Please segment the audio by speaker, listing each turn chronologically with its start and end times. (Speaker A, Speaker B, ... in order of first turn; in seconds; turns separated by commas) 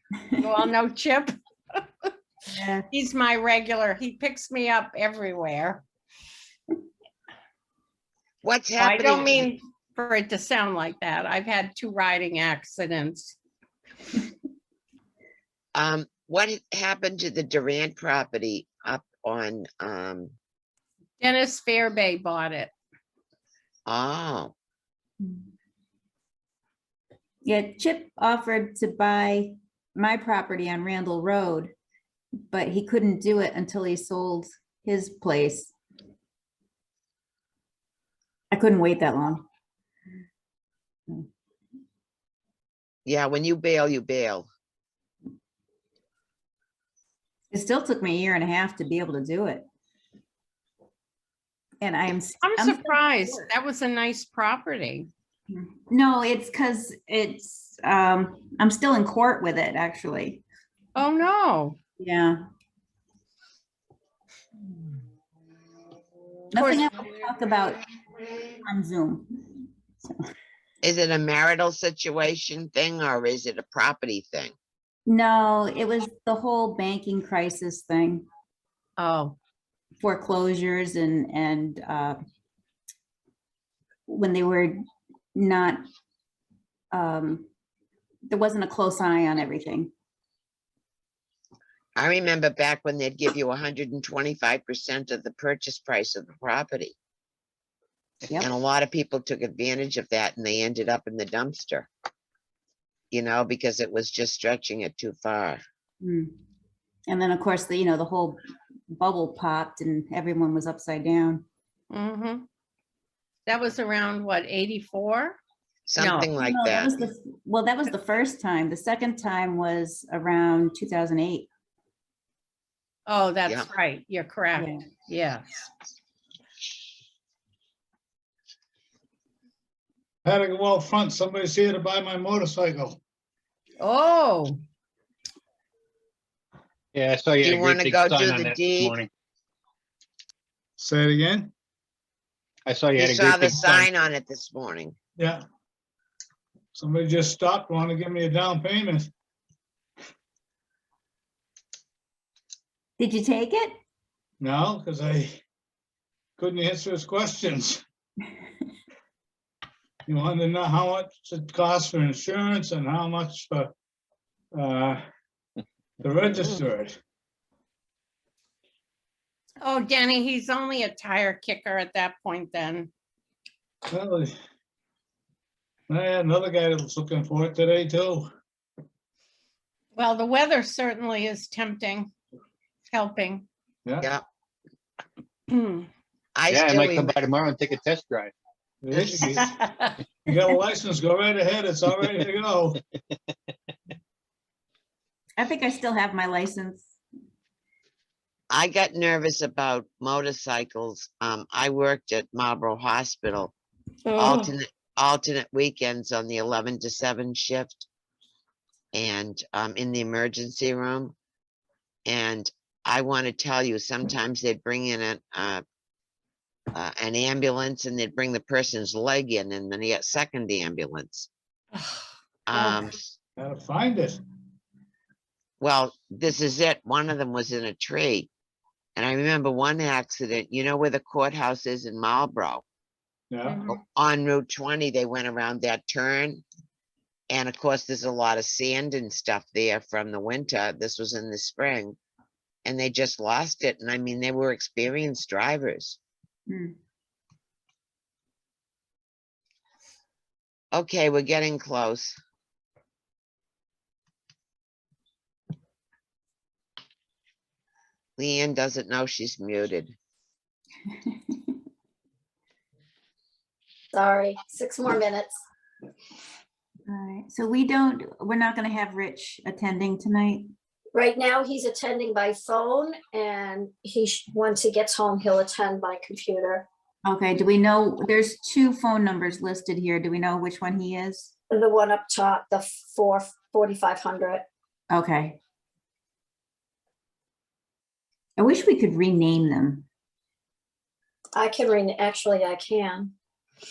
Speaker A: 0.3-2.1, Speaker B: 2.5-2.9, Speaker A: 2.9-5.8, Speaker C: 8.4-9.5, Speaker A: 8.8-13.4, Speaker C: 15.8-20.3, Speaker A: 21.2-22.7, Speaker C: 23.9-24.5, Speaker B: 27.4-31.7, Speaker B: 32.5-35.7, Speaker B: 38.5-39.5, Speaker C: 43.0-44.5, Speaker B: 47.5-49.6, Speaker B: 51.8-53.5, Speaker A: 52.4-55.1, Speaker B: 55.5-60.4, Speaker A: 61.0-61.8, Speaker B: 62.0-62.4, Speaker B: 66.5-67.8, Speaker A: 66.6-66.9, Speaker B: 68.4-70.2, Speaker C: 70.8-74.5, Speaker B: 75.1-78.3, Speaker A: 79.0-79.4, Speaker B: 80.0-82.2, Speaker B: 84.1-84.8, Speaker B: 85.3-85.8, Speaker B: 86.9-87.5, Speaker B: 88.3-89.9, Speaker C: 92.0-97.0, Speaker C: 98.4-101.9, Speaker C: 103.1-105.6, Speaker B: 106.0-106.3, Speaker B: 107.1-111.5, Speaker A: 111.9-112.4, Speaker A: 113.5-115.4, Speaker C: 115.9-117.1, Speaker A: 116.0-116.3, Speaker B: 116.4-121.5, Speaker A: 123.1-125.5, Speaker B: 124.6-124.8, Speaker D: 130.2-133.0, Speaker A: 133.8-134.6, Speaker E: 136.9-139.1, Speaker C: 137.4-139.0, Speaker D: 140.8-141.5, Speaker E: 142.7-143.9, Speaker C: 143.0-145.0, Speaker D: 145.2-145.4, Speaker D: 146.8-149.1, Speaker B: 153.0-153.7, Speaker D: 154.4-155.4, Speaker D: 156.4-157.8, Speaker D: 160.1-163.7, Speaker D: 164.5-165.1, Speaker D: 166.0-167.0, Speaker A: 169.6-172.9, Speaker D: 173.9-174.3, Speaker D: 175.9-178.3, Speaker A: 179.9-182.1, Speaker A: 182.9-183.5, Speaker A: 185.5-185.9, Speaker C: 186.3-187.2, Speaker E: 186.5-188.3, Speaker D: 188.8-189.5, Speaker C: 188.9-189.3, Speaker A: 189.4-189.9, Speaker D: 190.2-192.8, Speaker B: 195.4-196.9, Speaker C: 198.5-203.5, Speaker A: 204.1-204.5, Speaker C: 204.2-207.9, Speaker C: 208.9-211.2, Speaker C: 212.1-215.6, Speaker C: 216.7-221.3, Speaker A: 221.7-222.8, Speaker C: 222.5-223.2, Speaker D: 223.4-224.2, Speaker C: 225.6-228.3, Speaker C: 229.0-232.6, Speaker D: 233.3-233.7, Speaker A: 233.5-233.8, Speaker C: 233.7-236.4, Speaker C: 237.3-242.0, Speaker C: 242.7-246.0, Speaker B: 246.5-246.8, Speaker C: 250.7-252.1, Speaker C: 258.2-259.9, Speaker F: 263.9-265.4, Speaker B: 266.9-270.5, Speaker F: 270.9-276.7, Speaker B: 277.1-281.3, Speaker F: 281.5-284.4, Speaker B: 284.9-285.4, Speaker B: 288.4-289.9, Speaker F: 291.4-293.1